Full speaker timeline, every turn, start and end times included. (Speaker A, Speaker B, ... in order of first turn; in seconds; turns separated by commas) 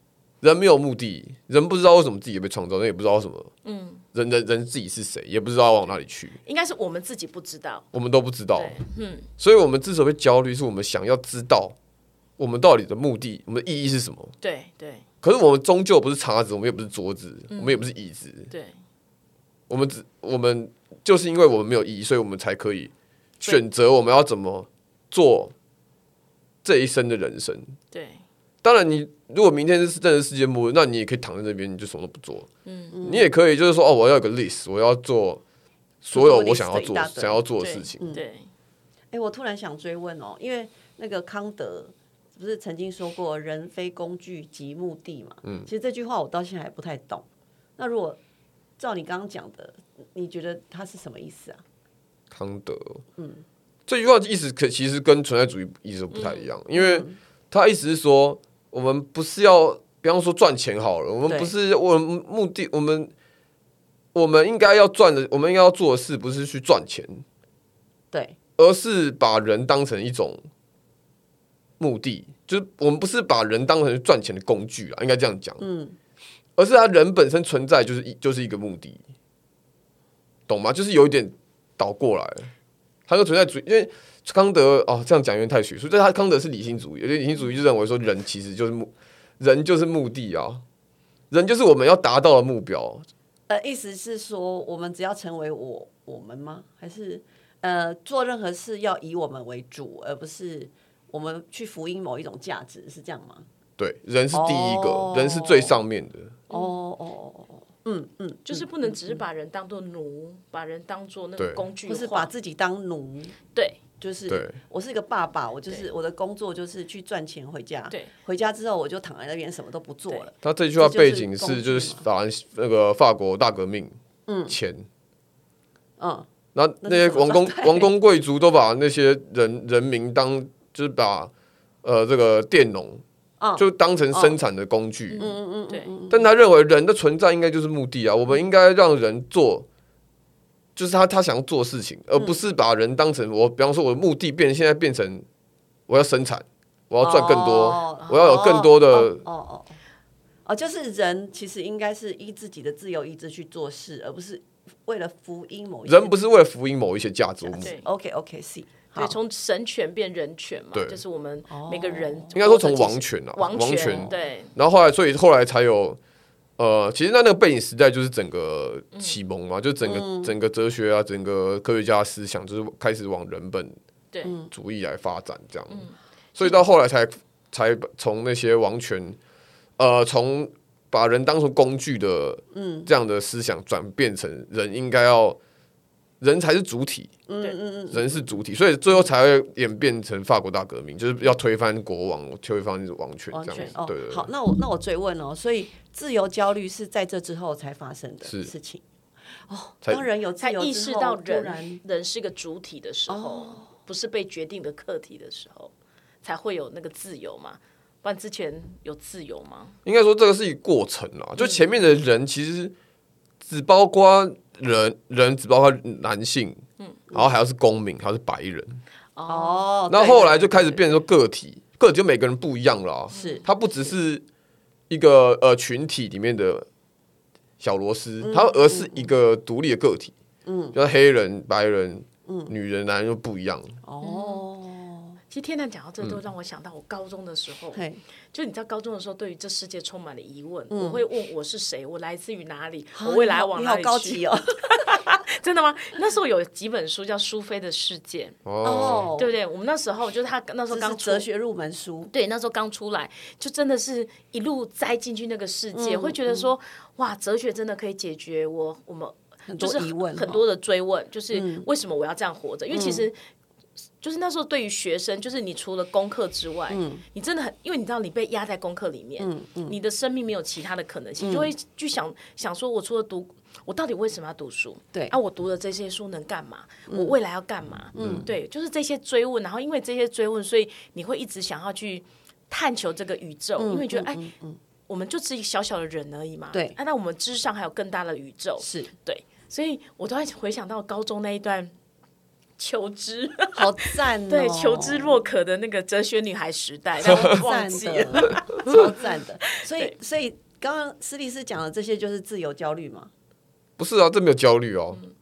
Speaker A: 0.4-3.5, Speaker B: 3.6-4.0, Speaker A: 4.1-6.4, Speaker B: 6.5-7.9, Speaker A: 7.9-8.8, Speaker B: 8.5-9.3, Speaker A: 9.4-11.8, Speaker A: 12.4-14.3, Speaker B: 14.4-15.0, Speaker A: 15.2-18.5, Speaker B: 17.5-17.9, Speaker B: 18.5-18.8, Speaker A: 19.7-25.5, Speaker A: 26.6-27.7, Speaker B: 27.9-28.2, Speaker A: 28.6-32.5, Speaker B: 32.6-33.0, Speaker C: 32.9-33.3, Speaker A: 33.0-35.4, Speaker A: 36.0-38.1, Speaker C: 36.1-37.4, Speaker B: 37.6-38.5, Speaker C: 39.1-47.2, Speaker C: 47.8-48.2, Speaker C: 48.8-51.6, Speaker A: 52.3-53.0, Speaker C: 53.2-53.4, Speaker A: 53.9-63.1, Speaker B: 56.1-56.5, Speaker C: 56.8-57.2, Speaker C: 61.3-61.5, Speaker A: 64.1-67.2, Speaker A: 68.6-70.4, Speaker A: 71.8-75.6, Speaker C: 75.6-76.0, Speaker A: 76.6-79.0, Speaker A: 80.5-82.5, Speaker A: 83.1-90.6, Speaker A: 91.3-93.1, Speaker C: 93.5-103.5, Speaker A: 103.8-106.4, Speaker C: 104.3-105.8, Speaker C: 106.5-109.2, Speaker B: 108.5-112.3, Speaker C: 111.9-113.4, Speaker B: 113.5-113.8, Speaker C: 114.0-122.1, Speaker A: 114.3-114.6, Speaker A: 120.4-124.0, Speaker C: 124.3-124.6, Speaker A: 124.5-124.9, Speaker C: 126.0-126.3, Speaker A: 126.5-131.3, Speaker C: 126.8-127.9, Speaker A: 131.8-133.0, Speaker C: 133.4-134.4, Speaker A: 133.6-135.2, Speaker B: 135.1-135.9, Speaker C: 135.2-136.3, Speaker A: 136.1-139.7, Speaker A: 140.8-145.2, Speaker A: 145.9-149.3, Speaker C: 147.0-149.8, Speaker C: 150.4-156.2, Speaker A: 155.9-157.7, Speaker C: 157.4-159.2, Speaker B: 157.6-157.9, Speaker B: 158.9-164.5, Speaker A: 160.7-161.0, Speaker C: 161.5-162.4, Speaker A: 162.3-166.0, Speaker A: 166.6-173.8, Speaker B: 168.9-169.2, Speaker C: 169.8-170.3, Speaker C: 174.2-174.5, Speaker A: 174.5-179.2, Speaker B: 175.7-176.6, Speaker A: 179.8-185.4, Speaker C: 182.5-182.9, Speaker A: 186.2-187.2, Speaker C: 187.3-188.2, Speaker A: 187.9-194.3, Speaker C: 193.3-198.8, Speaker A: 198.2-198.5, Speaker C: 199.5-201.8, Speaker B: 200.4-209.8, Speaker C: 203.1-203.7, Speaker A: 209.8-212.7, Speaker A: 213.4-216.6, Speaker A: 217.1-218.8, Speaker B: 219.2-219.7, Speaker C: 219.3-220.8, Speaker A: 219.9-224.2, Speaker B: 223.1-223.4, Speaker C: 223.2-223.4, Speaker A: 224.9-226.7, Speaker A: 227.6-230.2, Speaker C: 228.2-229.1, Speaker C: 230.5-230.8, Speaker A: 230.7-233.8, Speaker C: 232.3-232.5, Speaker C: 233.8-235.2, Speaker B: 234.0-234.4, Speaker B: 235.3-248.4, Speaker C: 237.7-238.0, Speaker C: 240.7-241.0, Speaker C: 242.9-245.0, Speaker A: 248.4-249.1, Speaker C: 248.6-249.3, Speaker B: 249.2-251.2, Speaker C: 250.7-252.1, Speaker B: 252.1-263.2, Speaker C: 255.7-256.5, Speaker C: 259.5-260.4, Speaker C: 261.3-261.7, Speaker C: 262.7-263.1, Speaker B: 264.0-284.2, Speaker C: 266.7-267.0, Speaker C: 269.2-269.8, Speaker C: 271.2-271.5, Speaker C: 276.9-277.1, Speaker C: 277.9-278.3, Speaker A: 278.0-278.3, Speaker C: 283.6-284.6, Speaker B: 284.9-291.7, Speaker C: 288.6-288.9, Speaker B: 292.6-298.9, Speaker C: 293.6-295.2, Speaker C: 297.0-303.1, Speaker B: 299.5-299.9, Speaker A: 303.8-305.0